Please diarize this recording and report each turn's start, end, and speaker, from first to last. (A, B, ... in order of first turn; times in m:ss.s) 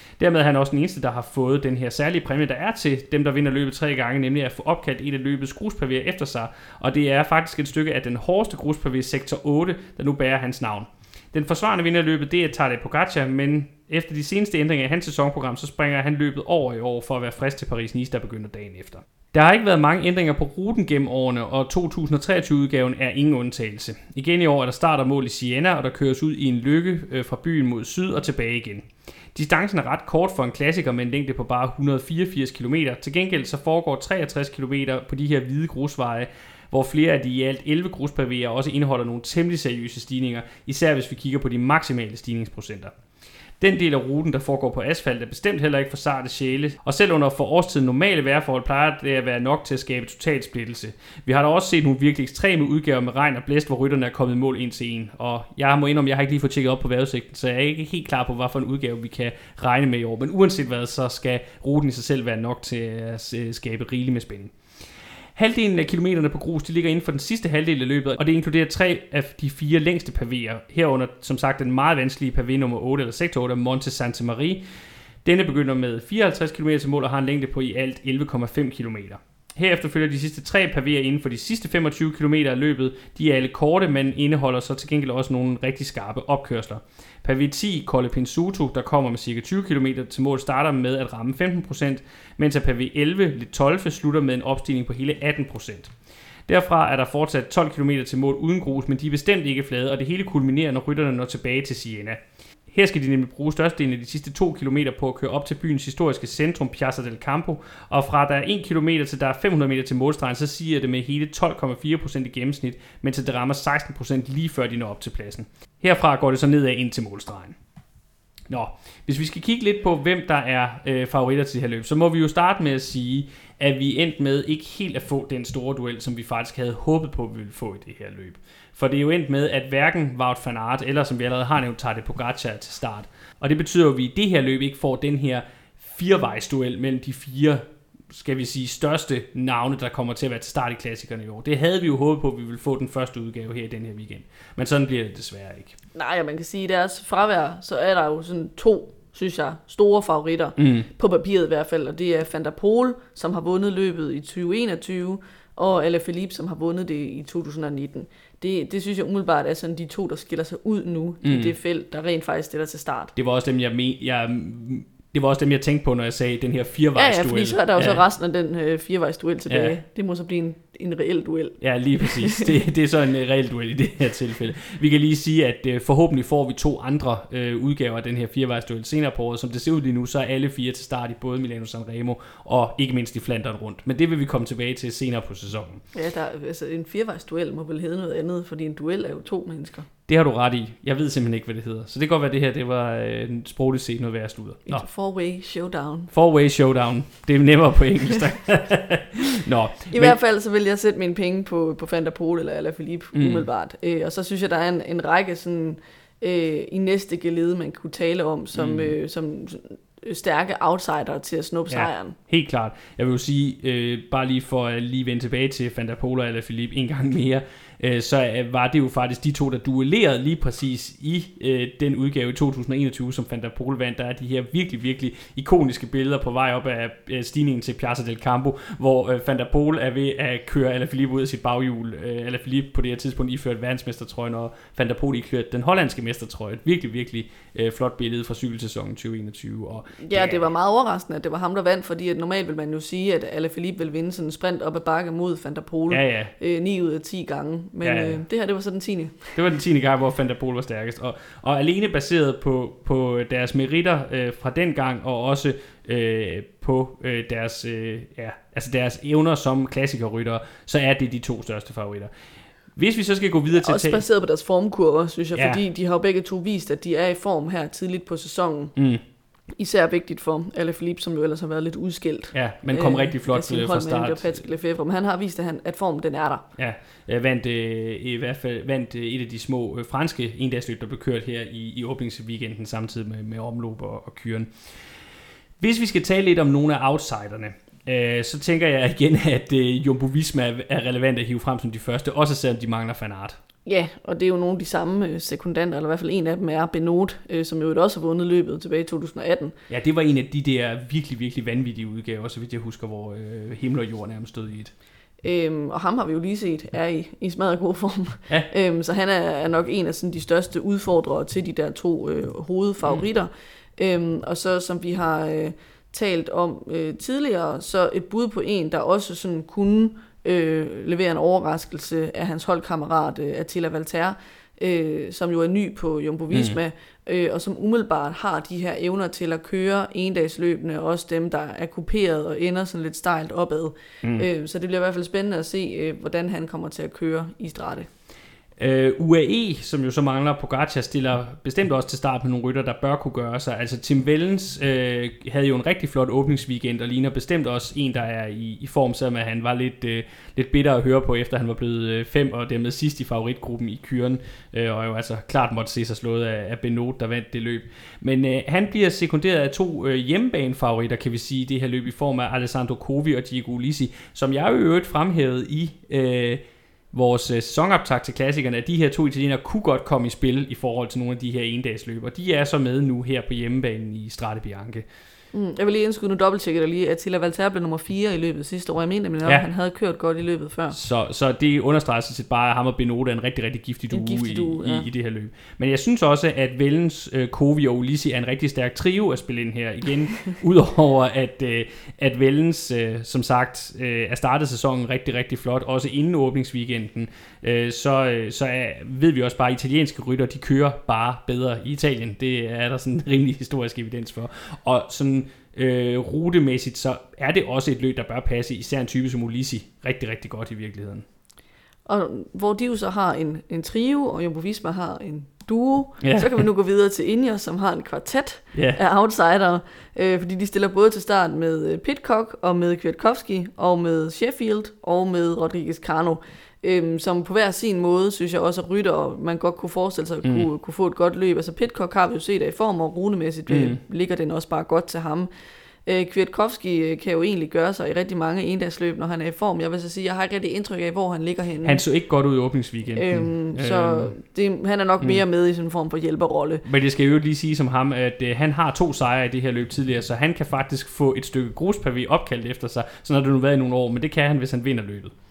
0:00.2-0:42.9 A
0:43.6-1:04.5 A
1:05.4-1:14.6 A
1:15.2-1:35.9 A
1:36.5-1:57.6 A
1:58.5-2:25.8 A
2:25.9-2:43.1 B
2:30.6-2:30.9 A
2:41.2-2:41.5 A
2:43.2-2:48.0 A
2:47.0-2:52.5 B
2:49.5-2:49.8 A
2:51.6-3:05.8 A
3:05.9-3:09.9 B
3:10.1-3:14.8 A
3:14.6-3:16.1 B
3:16.1-3:20.2 A
3:19.9-3:32.2 B
3:23.1-3:23.5 A
3:28.5-3:29.0 A
3:31.7-4:00.5 A
4:00.0-4:09.4 B
4:05.9-4:06.3 A
4:07.8-4:08.2 A
4:09.3-4:22.1 A
4:22.7-4:24.0 A
4:23.5-4:28.7 B
4:25.4-4:25.6 A
4:28.8-4:29.0 A
4:29.6-4:36.4 B
4:32.3-4:34.4 A
4:36.6-4:44.5 A
4:45.6-4:53.4 A
4:53.6-4:59.5 B
4:59.7-5:04.7 A
5:05.2-5:37.9 B
5:38.6-6:06.4 A
6:06.9-6:14.8 A
6:15.3-6:20.8 B
6:20.7-6:51.0 A
6:23.9-6:24.9 B
6:51.8-7:15.3 B
6:56.0-6:56.4 A
6:58.5-6:58.8 A
7:13.5-7:13.8 A
7:15.8-7:21.8 B
7:21.6-7:24.1 A
7:23.0-7:26.6 B
7:26.6-7:35.1 A